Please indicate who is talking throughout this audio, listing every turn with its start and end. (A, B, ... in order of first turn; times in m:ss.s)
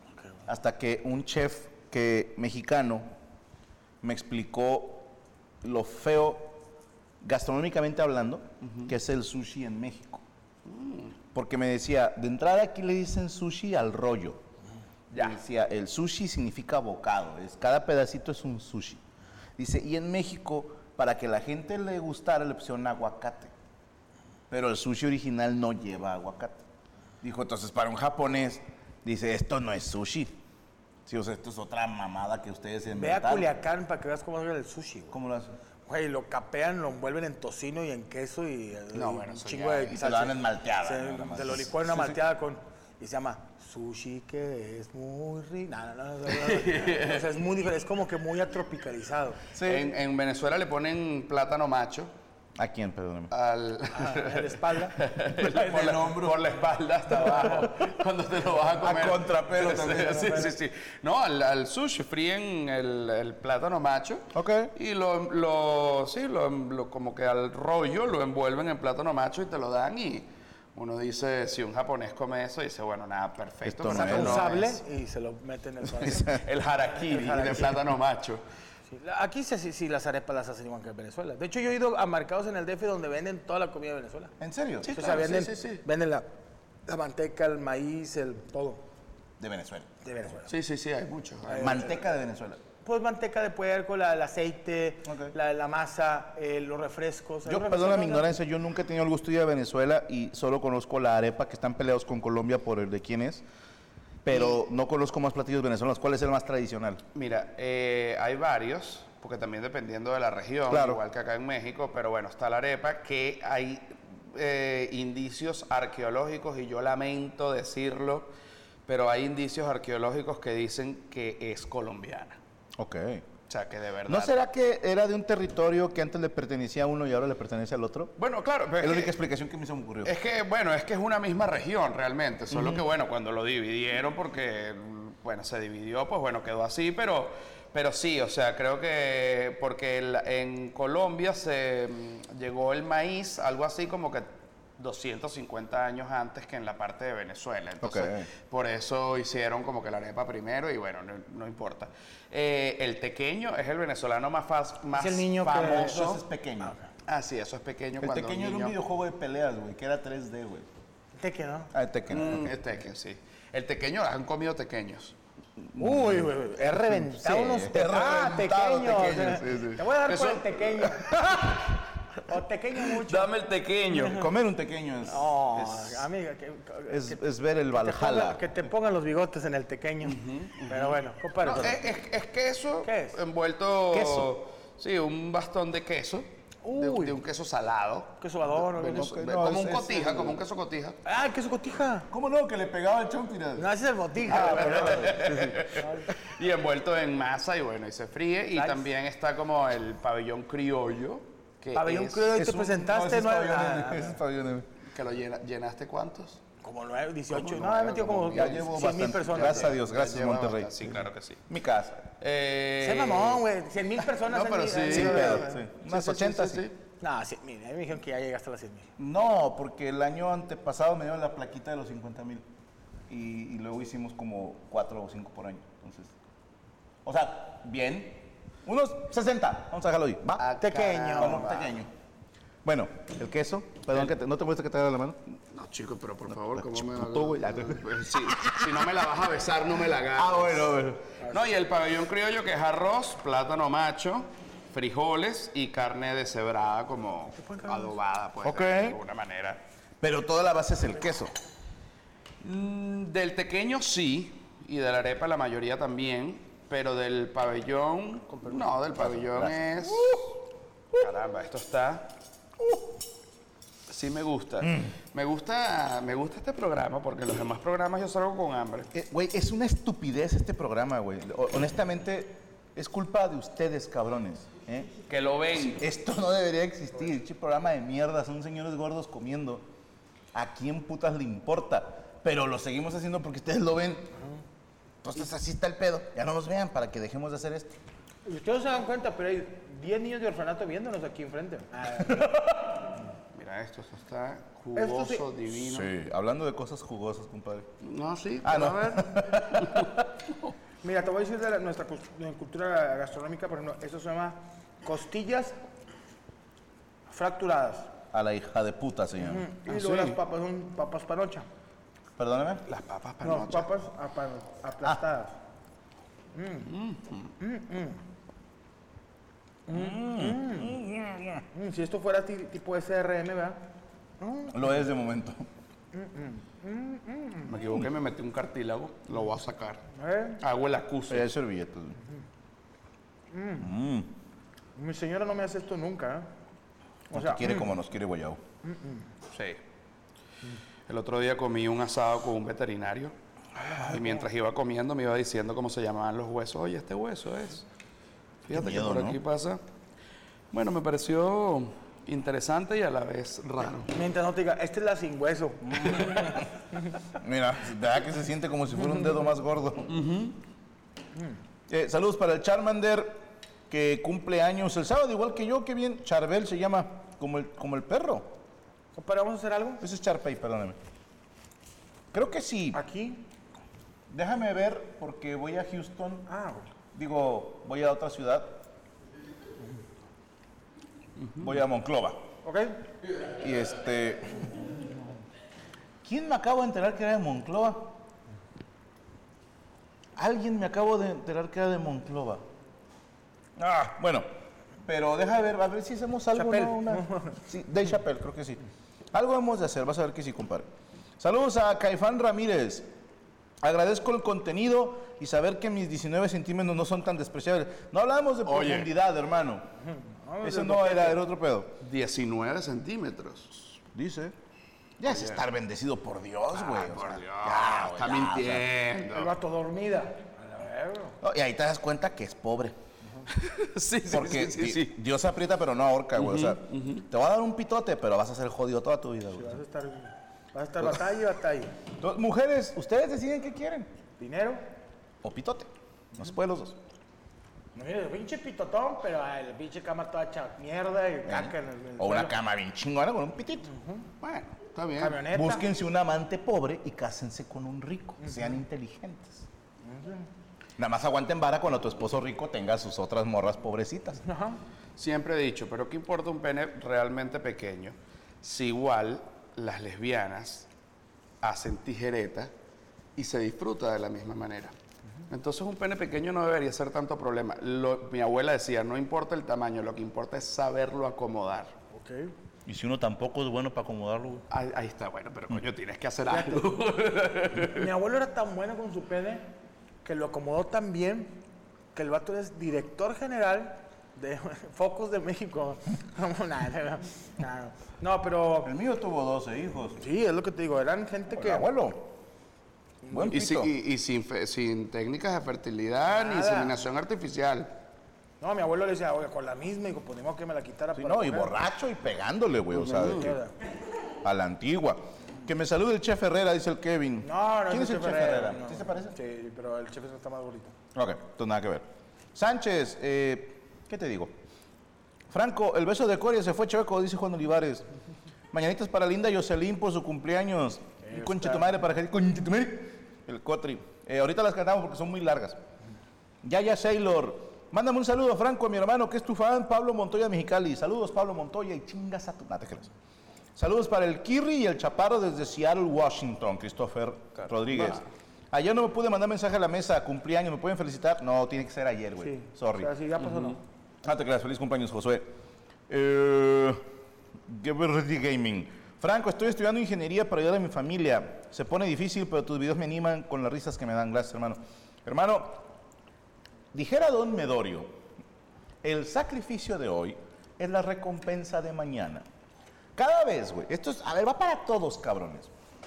0:00.5-0:03.1 A
0:04.0-0:05.1 A
0:05.6-0:06.6 A
0:07.2-0:10.2 A
0:08.6-0:08.9 B
0:10.6-0:11.2 B
0:11.3-0:14.4 A
0:15.1-0:15.4 B
0:15.1-0:19.0 A
0:19.6-0:23.5 A
0:24.5-0:26.6 A
0:27.2-0:30.3 A
0:31.0-0:33.5 A
0:32.9-0:35.2 C
0:35.1-0:35.5 A
0:35.8-0:49.4 C
0:38.9-0:40.0 B
0:39.9-0:42.2 A
0:46.3-0:47.2 B
0:49.5-0:49.9 A
0:49.6-0:52.1 B
0:52.6-0:53.3 A
0:53.3-1:14.8 B
0:54.0-0:55.9 C
0:55.5-0:56.4 A
0:58.8-1:00.5 A
1:04.3-1:04.7 A
1:13.6-1:14.5 A
1:13.9-1:16.4 C
1:16.0-1:16.4 A
1:16.2-1:18.4 B
1:17.0-1:17.8 C
1:18.9-1:24.3 C
1:24.4-1:24.9 A
1:24.8-1:25.8 B
1:24.9-1:26.2 C
1:26.9-1:28.8 C
1:29.4-1:29.9 A
1:30.0-1:30.5 C
1:30.5-1:31.9 B
1:31.5-1:32.0 C
1:31.6-1:32.6 A
1:32.8-1:38.3 C
1:35.0-1:35.3 A
1:37.4-1:43.4 A
1:44.2-1:47.0 A
1:47.1-1:58.3 B
1:50.7-1:51.0 A
1:58.9-2:02.4 B
2:02.8-2:03.2 A
2:03.5-2:04.4 B
2:04.1-2:08.1 A
2:08.2-2:09.1 B
2:08.8-2:10.1 A
2:10.0-2:36.0 B
2:12.5-2:12.8 A
2:27.8-2:28.3 A
2:34.9-2:36.8 C
2:35.5-2:36.7 A
2:37.1-2:38.8 B
2:38.0-2:40.7 A
2:41.2-2:41.7 C
2:41.7-2:42.5 A
2:42.1-2:45.1 B
2:45.6-2:49.8 A
2:45.8-2:51.6 C
2:49.4-2:51.4 B
2:52.2-2:53.3 C
2:53.0-2:54.2 B
2:53.9-2:54.3 C
2:54.1-2:56.0 A
2:55.1-2:57.2 C
2:56.9-2:58.6 A
2:57.7-3:01.8 C
3:00.0-3:11.0 B
3:01.5-3:01.8 A
3:02.8-3:03.2 C
3:03.9-3:04.3 A
3:06.6-3:07.2 C
3:08.2-3:09.1 C
3:08.8-3:10.4 A
3:11.0-3:12.1 C
3:12.1-3:13.7 A
3:13.6-3:16.1 C
3:14.2-3:15.4 A
3:14.3-3:22.3 B
3:18.5-3:18.9 C
3:21.7-3:24.2 C
3:22.3-3:24.7 A
3:24.9-3:26.4 B
3:26.6-3:29.8 C
3:27.3-3:31.4 B
3:28.2-3:32.0 A
3:32.2-3:33.4 B
3:32.8-3:35.6 C
3:34.0-3:36.8 B
3:34.9-3:36.7 A
3:37.0-3:38.9 C
3:39.0-3:42.4 A
3:43.1-3:46.1 A
3:47.0-3:50.5 A
3:50.4-3:51.8 B
3:50.6-3:51.5 C
3:51.1-3:51.9 A
3:52.6-3:55.2 A
3:55.5-4:09.6 B
3:56.5-3:58.8 A
4:00.1-4:01.0 A
4:07.4-4:07.9 C
4:08.4-4:09.0 A
4:10.0-4:11.3 A
4:12.4-4:20.3 B
4:18.9-4:20.3 A
4:20.9-4:22.1 B
4:22.6-4:22.9 A
4:23.9-4:28.9 B
4:28.9-4:34.9 A
4:35.1-4:35.8 B
4:35.5-4:39.6 A
4:40.3-4:44.1 A
4:45.0-4:47.8 A
4:48.2-4:52.4 C
4:52.1-4:52.3 A
4:53.3-4:55.9 B
4:54.8-4:55.3 C
4:55.5-4:57.7 A
4:57.8-4:59.9 B
4:58.4-5:00.0 A
5:00.8-5:05.6 C
5:07.1-5:07.9 C
5:08.1-5:09.5 A
5:09.2-5:11.4 C
5:09.7-5:10.2 B
5:12.2-5:12.6 A
5:12.6-5:13.7 B
5:13.2-5:15.4 C
5:16.3-5:16.7 C
5:16.6-5:17.3 B
5:17.4-5:18.0 C
5:19.7-5:20.8 C
5:19.7-5:21.4 A
5:21.5-5:23.6 C
5:24.2-5:24.6 C
5:24.5-5:25.4 A
5:25.9-5:27.5 C
5:27.4-5:29.8 B
5:29.9-5:30.4 C
5:30.4-5:31.3 B
5:31.1-5:32.0 A
5:33.3-5:33.7 C
5:33.6-5:34.1 A
5:34.8-5:36.3 C
5:37.1-5:37.8 C
5:37.1-5:38.4 A
5:38.6-5:39.0 C
5:39.3-5:39.6 B
5:40.9-5:43.1 B
5:43.8-5:47.6 B
5:48.5-5:49.6 B
5:48.5-5:49.2 A
5:50.5-5:53.9 B
5:53.9-5:56.4 C
5:55.7-5:56.4 A
5:55.8-5:56.4 B
5:57.2-5:59.9 A
5:59.9-6:00.4 B
6:01.7-6:08.3 A
6:08.9-6:09.8 C
6:09.8-6:10.8 A
6:12.1-6:12.8 A
6:12.7-6:13.2 C
6:14.1-6:16.3 A
6:16.3-6:16.7 C
6:16.9-6:18.6 A
6:21.4-6:22.2 A
6:22.4-6:22.8 C
6:23.3-6:24.5 A
6:26.0-6:28.0 A
6:30.2-6:32.4 A
6:33.6-6:34.2 A
6:34.8-6:38.6 A
6:36.3-6:37.4 C
6:39.1-6:40.7 A
6:41.2-6:42.8 A
6:43.6-6:49.6 A
6:48.4-6:48.9 B
6:49.9-6:51.2 C
6:50.4-6:51.7 A
6:51.8-6:53.8 B
6:53.9-6:54.3 A
6:55.0-6:58.7 A
6:55.0-6:55.4 B
6:56.5-6:59.3 B
6:59.1-7:01.2 C
7:01.2-7:02.8 A
7:03.3-7:05.0 B
7:04.1-7:09.6 A
7:06.2-7:07.0 B
7:09.3-7:11.7 C
7:12.0-7:13.9 A
7:14.2-7:14.6 C
7:15.2-7:16.8 A
7:17.7-7:22.3 C
7:21.2-7:23.7 A
7:23.7-7:24.0 C
7:24.2-7:25.2 B
7:25.0-7:25.6 C
7:25.3-7:29.4 A
7:29.8-7:30.3 C
7:30.8-7:34.2 A
7:34.2-7:34.6 C
7:35.0-7:40.7 B
7:41.4-7:42.5 B
7:43.2-7:44.7 B
7:45.3-7:51.8 B
7:51.9-7:52.3 C
7:52.6-7:54.4 A
7:54.5-7:57.9 B
7:56.3-7:56.7 C
7:57.6-7:59.4 C
8:00.0-8:01.4 C
8:01.9-8:08.7 C
8:08.6-8:10.0 A
8:10.0-8:11.7 C
8:11.3-8:12.1 A
8:13.1-8:13.7 A
8:13.2-8:17.7 B
8:16.1-8:16.8 C
8:18.4-8:21.5 C
8:20.9-8:23.4 A
8:22.8-8:23.5 C
8:22.9-8:23.3 B
8:24.2-8:29.1 A
8:27.2-8:30.7 C
8:30.9-8:34.3 A
8:35.3-8:37.8 A
8:38.5-8:45.6 A
8:41.1-8:41.7 C
8:46.4-8:52.9 A
8:53.6-9:02.9 A
9:02.2-9:03.6 C
9:04.0-9:05.3 A
9:05.9-9:06.8 A
9:07.5-9:15.6 A
9:16.7-9:17.9 A
9:18.8-9:22.2 A
9:23.0-9:25.5 A